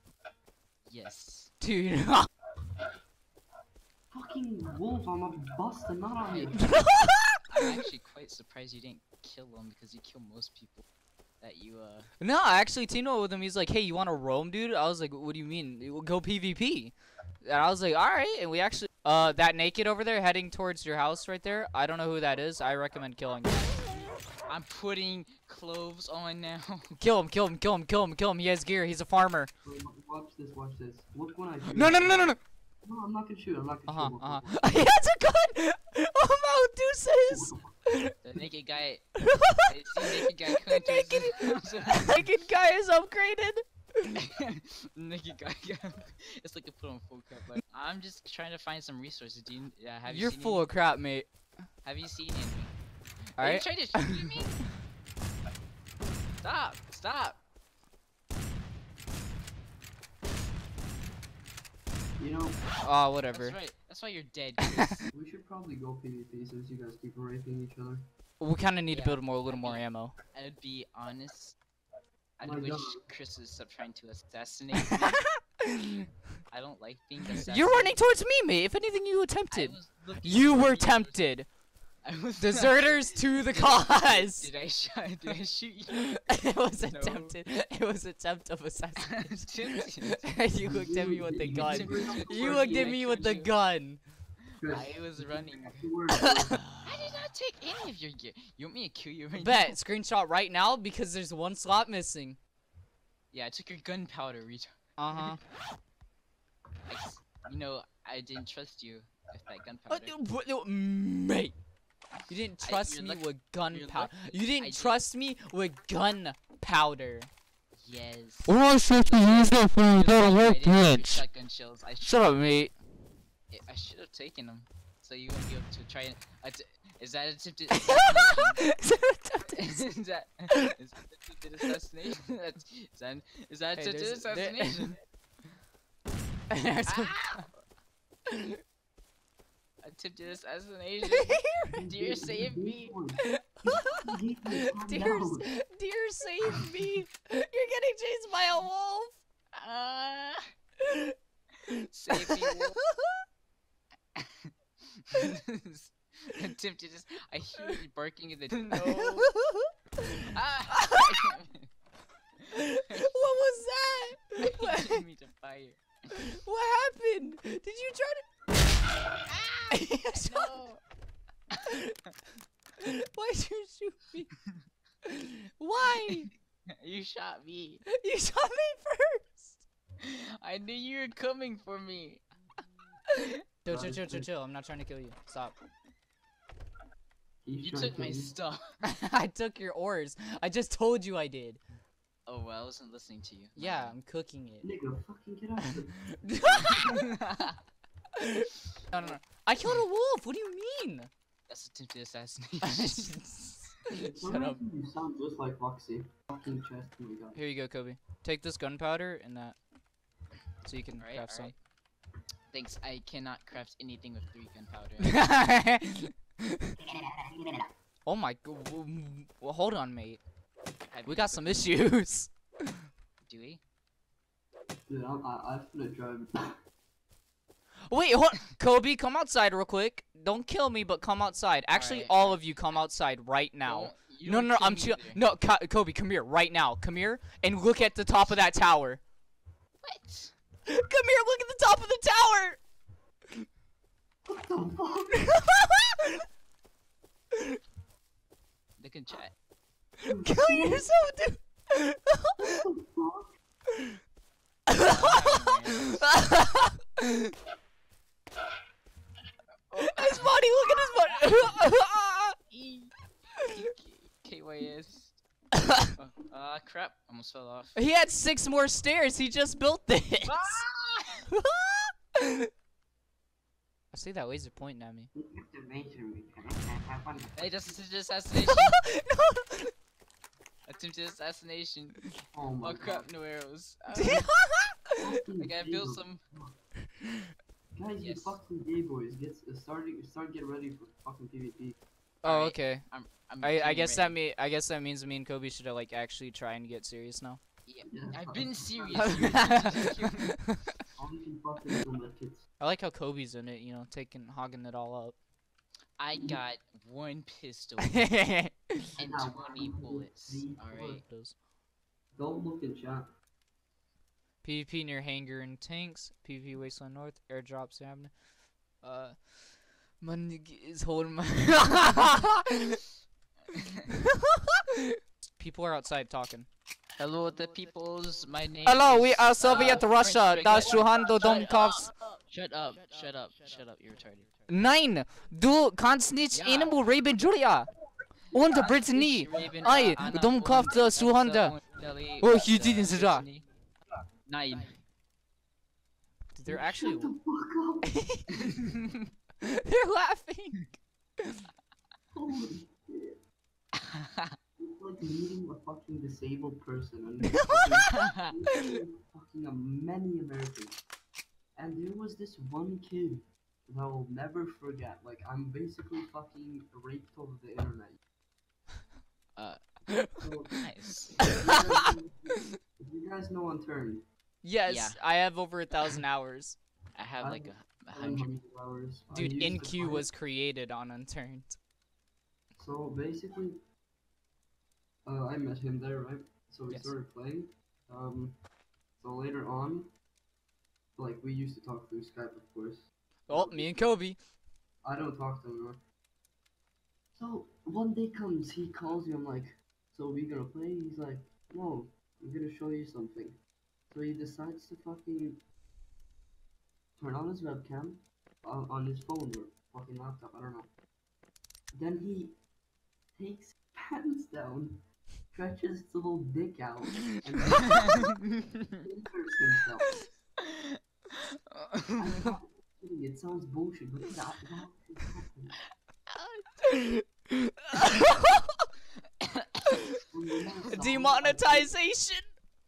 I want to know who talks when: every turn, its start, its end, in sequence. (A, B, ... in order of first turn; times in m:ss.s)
0:00.9-0:01.5 A
0:01.6-0:02.3 B
0:04.1-0:06.9 C
0:06.2-0:06.9 A
0:06.7-0:07.6 B
0:07.5-0:10.8 A
0:11.4-0:12.1 A
0:12.2-0:24.1 B
0:24.5-0:26.9 A
0:27.0-0:29.5 B
0:29.6-0:34.6 C
0:31.7-0:32.4 B
0:33.9-0:38.1 B
0:37.3-0:37.7 C
0:38.2-0:42.3 A
0:39.2-0:44.2 B
0:44.2-0:50.6 A
0:50.1-0:51.3 B
0:51.8-0:52.7 A
0:53.4-0:54.6 A
0:53.4-0:54.4 B
0:56.4-0:57.4 A
1:02.2-1:02.6 C
1:02.8-1:03.6 B
1:03.3-1:05.0 A
1:04.6-1:05.0 B
1:05.1-1:08.0 C
1:08.4-1:10.1 B
1:08.9-1:11.6 A
1:12.4-1:15.2 A
1:12.4-1:13.0 C
1:14.8-1:16.0 B
1:16.5-1:18.0 A
1:17.4-1:21.5 B
1:19.5-1:21.3 A
1:22.0-1:27.4 A
1:22.4-1:24.5 B
1:26.0-1:34.0 B
1:29.0-1:30.4 A
1:30.6-1:33.0 C
1:31.4-1:33.5 A
1:34.6-1:36.6 C
1:34.7-1:35.8 A
1:36.8-1:39.8 A
1:39.4-1:42.4 B
1:43.3-1:45.3 A
1:45.0-1:45.4 B
1:46.9-1:50.2 A
1:49.9-1:51.6 B
1:52.3-1:57.3 B
1:52.6-1:55.0 A
1:57.7-2:02.4 A
1:58.4-2:01.2 B
2:02.0-2:02.7 B
2:03.5-2:08.6 A
2:07.7-2:09.8 B
2:09.6-2:15.0 A
2:13.8-2:15.0 B
2:16.5-2:17.4 B
2:16.9-2:17.5 A
2:18.3-2:18.6 B
2:19.8-2:22.9 A
2:21.1-2:21.7 B
2:21.7-2:25.5 C
2:23.2-2:24.1 B
2:24.8-2:29.2 B
2:29.5-2:30.4 A
2:30.8-2:31.1 B
2:31.9-2:32.8 A
2:32.3-2:33.1 B
2:34.2-2:39.3 A
2:38.8-2:41.2 B
2:40.3-2:41.7 A
2:42.4-2:43.1 A
2:42.5-2:45.0 B
2:44.4-2:45.8 A
2:46.1-2:48.2 B
2:49.3-2:50.8 A
2:49.7-2:50.5 B
2:51.6-2:51.9 B
2:52.8-2:54.3 B
2:55.0-2:56.3 B
2:56.8-2:57.8 A
2:57.9-2:59.6 B
3:00.0-3:02.2 A
3:03.6-3:05.6 B
3:03.7-3:04.3 C
3:07.4-3:08.4 C
3:07.6-3:08.8 A
3:08.8-3:11.6 B
3:12.3-3:13.9 A
3:13.6-3:14.7 B
3:14.6-3:17.0 C
3:16.2-3:16.9 B
3:16.6-3:17.6 A
3:18.2-3:21.1 B
3:21.5-3:23.1 A
3:22.6-3:24.6 B
3:24.0-3:27.4 C
3:27.3-3:29.6 B
3:30.6-3:31.5 B
3:31.0-3:31.6 A
3:32.5-3:35.3 A
3:35.0-3:36.8 B
3:38.1-3:40.2 B
3:40.9-3:41.8 A
3:41.1-3:42.9 B
3:43.2-3:43.6 A
3:44.9-3:46.5 C
3:47.9-3:59.0 B
3:51.7-3:52.8 A
3:53.6-3:55.2 A
3:59.8-4:00.3 A
4:00.7-4:02.6 B
4:04.3-4:05.3 C
4:05.3-4:06.2 B
4:08.8-4:09.3 A
4:10.1-4:10.9 C
4:10.2-4:12.3 B
4:12.4-4:13.3 C
4:14.7-4:15.3 B
4:14.8-4:16.2 A
4:16.0-4:17.3 B
4:19.7-4:21.6 A
4:19.8-4:22.4 B
4:22.5-4:25.2 A
4:25.6-4:25.9 B
4:25.9-4:27.8 A
4:27.8-4:30.6 B
4:30.2-4:31.2 A
4:31.3-4:32.5 B
4:33.9-4:35.1 B
4:35.2-4:37.7 C
4:37.3-4:38.8 A
4:38.4-4:39.7 B
4:40.7-4:42.0 A
4:42.3-4:43.1 C
4:42.6-4:44.3 A
4:43.9-4:45.0 B
4:45.0-4:46.6 C
4:45.4-4:46.2 A
4:47.8-4:51.8 C
4:48.0-4:48.4 A
4:52.2-4:52.9 B
4:52.2-4:54.2 A
4:53.4-4:57.4 B
4:57.7-5:00.4 A
4:57.9-4:59.8 C
4:59.0-5:00.7 B
5:00.9-5:02.4 C
5:02.6-5:05.2 B
5:06.0-5:08.1 A
5:07.8-5:08.8 B
5:09.0-5:11.0 A
5:09.0-5:11.0 C
5:11.0-5:11.4 B
5:12.2-5:13.1 C
5:14.4-5:18.1 B
5:18.8-5:19.3 B
5:20.0-5:22.8 B
5:24.2-5:26.5 B
5:27.0-5:34.3 A
5:28.6-5:31.9 B
5:34.5-5:37.7 B
5:36.3-5:36.7 A
5:38.3-5:41.6 B
5:38.5-5:43.4 A
5:42.2-5:43.2 B
5:44.2-5:44.8 A
5:46.3-5:47.1 B
5:46.4-5:47.9 C
5:47.9-5:48.4 B
5:48.4-5:48.9 A
5:49.4-5:51.4 B
5:52.1-5:53.2 C
5:54.6-6:00.8 C
6:01.6-6:08.0 C
6:09.9-6:10.2 B
6:10.2-6:10.5 C
6:10.6-6:11.2 A
6:11.2-6:14.0 C
6:14.4-6:16.6 B
6:14.7-6:15.0 A
6:16.9-6:18.3 A
6:17.2-6:20.1 C
6:19.1-6:21.6 B
6:22.5-6:23.6 C
6:25.0-6:28.4 C
6:29.0-6:29.9 C
6:31.0-6:33.9 C
6:33.3-6:34.2 B
6:34.8-6:35.8 C
6:37.2-6:43.4 C
6:43.9-6:45.4 C
6:47.0-6:50.7 C
6:51.7-6:52.4 C
6:53.2-6:58.2 C
6:58.8-7:00.0 C
7:00.4-7:02.3 A
7:02.0-7:05.6 C
7:06.6-7:08.6 B
7:09.2-7:09.5 A
7:10.1-7:11.7 C
7:10.7-7:12.3 B